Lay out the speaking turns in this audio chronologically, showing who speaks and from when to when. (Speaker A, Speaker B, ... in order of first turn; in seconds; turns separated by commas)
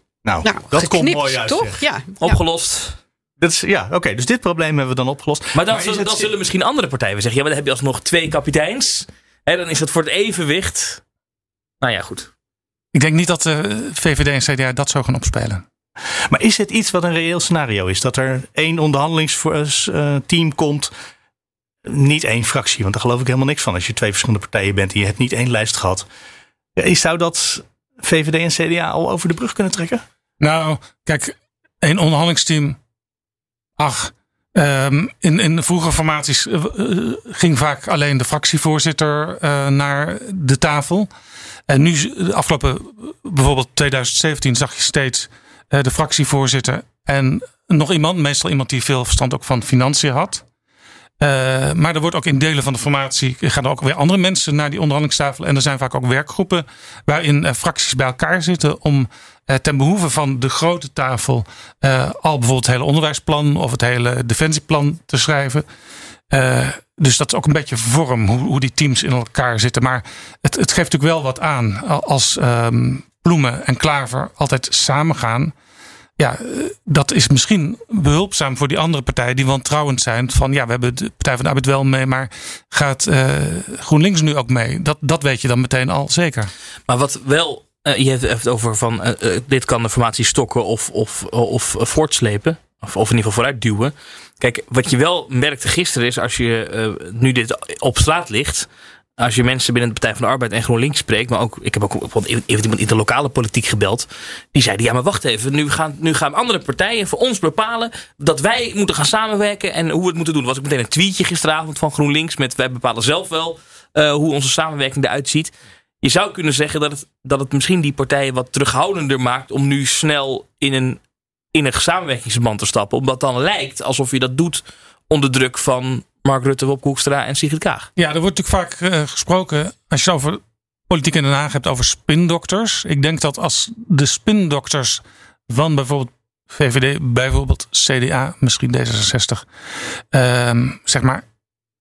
Speaker A: 0.2-1.8, Speaker B: 0.4-2.4, Speaker C: 2.2-3.0, Speaker A: 3.4-6.3, Speaker C: 5.5-11.0, Speaker C: 11.8-12.3, Speaker D: 12.9-15.6, Speaker A: 16.3-20.9, Speaker A: 21.9-26.1, Speaker A: 26.8-30.0, Speaker D: 30.4-32.8, Speaker D: 33.8-41.1, Speaker D: 41.7-50.4, Speaker D: 51.2-65.6, Speaker D: 66.3-75.5, Speaker D: 76.2-86.5, Speaker C: 86.9-98.7, Speaker C: 99.2-115.5, Speaker C: 116.0-121.0, Speaker C: 121.5-127.9, Speaker D: 128.0-139.4, Speaker D: 140.1-141.2